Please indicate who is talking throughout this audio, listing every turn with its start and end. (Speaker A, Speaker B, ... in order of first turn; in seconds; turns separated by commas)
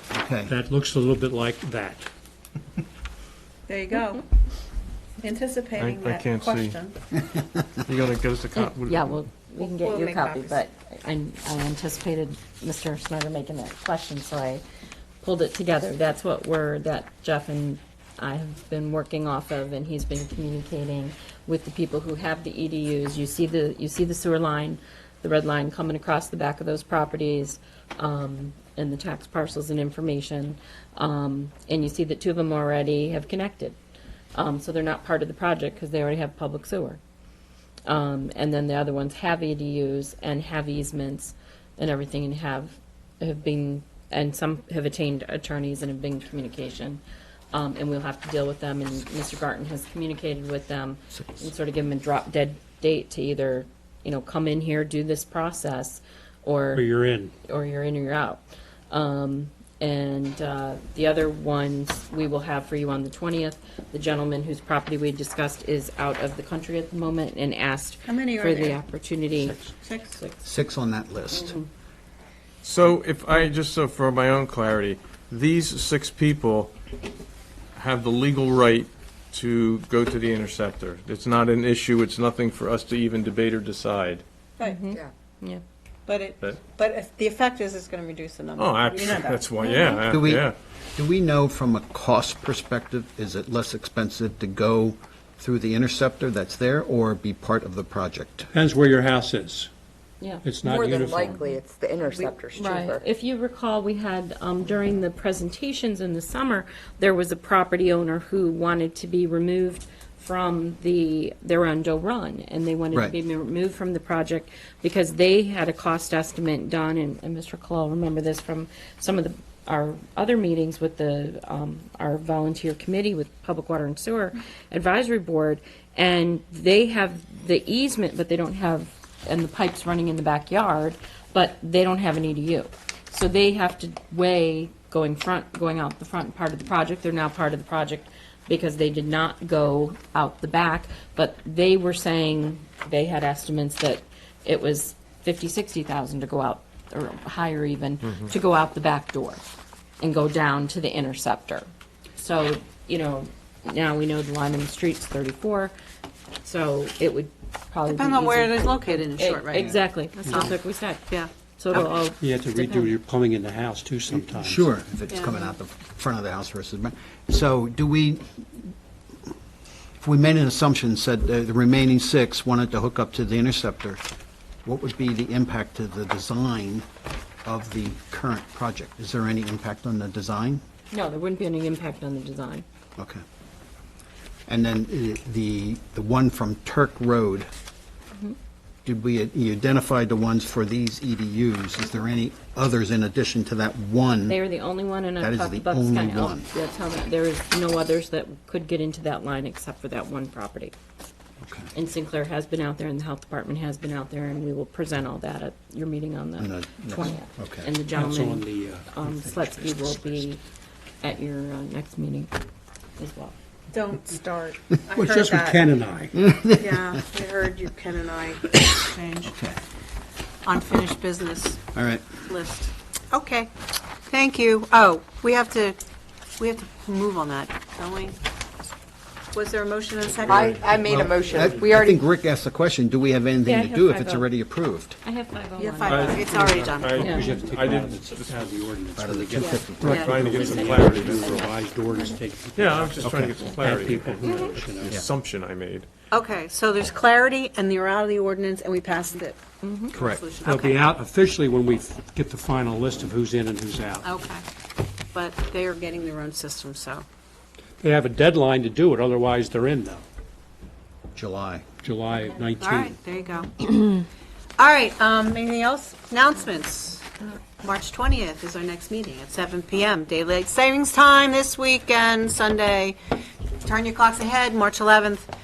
Speaker A: 0.1-0.5, Speaker B: 0.4-2.1, Speaker C: 3.7-4.2, Speaker C: 5.2-7.0, Speaker D: 5.8-6.8, Speaker D: 7.8-9.2, Speaker E: 8.6-14.6, Speaker C: 9.6-10.6, Speaker E: 15.2-33.8, Speaker E: 34.3-37.0, Speaker E: 37.9-47.0, Speaker E: 47.5-56.9, Speaker B: 56.7-57.4, Speaker E: 57.5-70.4, Speaker C: 68.1-68.8, Speaker C: 69.8-70.2, Speaker A: 70.4-71.6, Speaker E: 71.3-71.7, Speaker D: 72.6-76.7, Speaker D: 77.8-84.2, Speaker E: 84.6-85.6, Speaker C: 86.1-89.8, Speaker D: 88.6-90.5, Speaker E: 89.6-90.0, Speaker A: 90.1-98.5, Speaker B: 98.5-99.7, Speaker B: 100.4-101.4, Speaker F: 100.6-103.0, Speaker E: 102.2-149.4, Speaker E: 150.0-151.7, Speaker E: 152.2-155.7, Speaker E: 156.4-162.9, Speaker C: 157.9-159.8, Speaker B: 160.3-160.6, Speaker C: 161.1-161.9, Speaker B: 162.1-164.8, Speaker A: 164.3-168.7, Speaker C: 165.1-165.5, Speaker A: 170.0-174.0, Speaker A: 174.7-176.8, Speaker A: 177.4-180.6, Speaker E: 180.9-182.7, Speaker A: 183.0-183.2, Speaker A: 184.5-187.5, Speaker A: 188.9-194.4, Speaker E: 194.3-200.7, Speaker A: 195.2-196.5, Speaker A: 201.4-201.7, Speaker E: 201.7-210.4, Speaker A: 206.4-207.7, Speaker B: 207.9-210.0, Speaker E: 211.0-212.3, Speaker E: 213.0-213.3, Speaker C: 213.7-215.7, Speaker B: 214.9-216.2, Speaker A: 216.2-216.9, Speaker C: 216.6-219.3, Speaker A: 219.3-219.6, Speaker C: 220.4-221.6, Speaker A: 221.7-222.1, Speaker C: 222.2-223.5, Speaker C: 224.1-225.8, Speaker C: 226.4-228.2, Speaker C: 229.3-231.2, Speaker F: 230.3-232.0, Speaker D: 230.4-230.8, Speaker A: 230.8-235.0, Speaker E: 233.4-234.3, Speaker E: 235.0-237.4, Speaker C: 235.6-237.1, Speaker D: 235.8-238.6, Speaker B: 236.8-245.0, Speaker A: 239.0-240.3, Speaker E: 239.4-241.5, Speaker C: 239.8-240.3, Speaker D: 239.9-241.5, Speaker D: 242.6-245.9, Speaker A: 243.0-243.4, Speaker E: 244.2-244.6, Speaker C: 246.1-250.8, Speaker E: 249.6-250.0, Speaker A: 249.9-250.2, Speaker B: 250.4-254.1, Speaker C: 254.0-254.4, Speaker C: 255.1-257.1, Speaker B: 257.8-260.0, Speaker A: 261.1-261.6, Speaker B: 261.8-263.0, Speaker C: 262.6-264.0, Speaker C: 264.6-275.3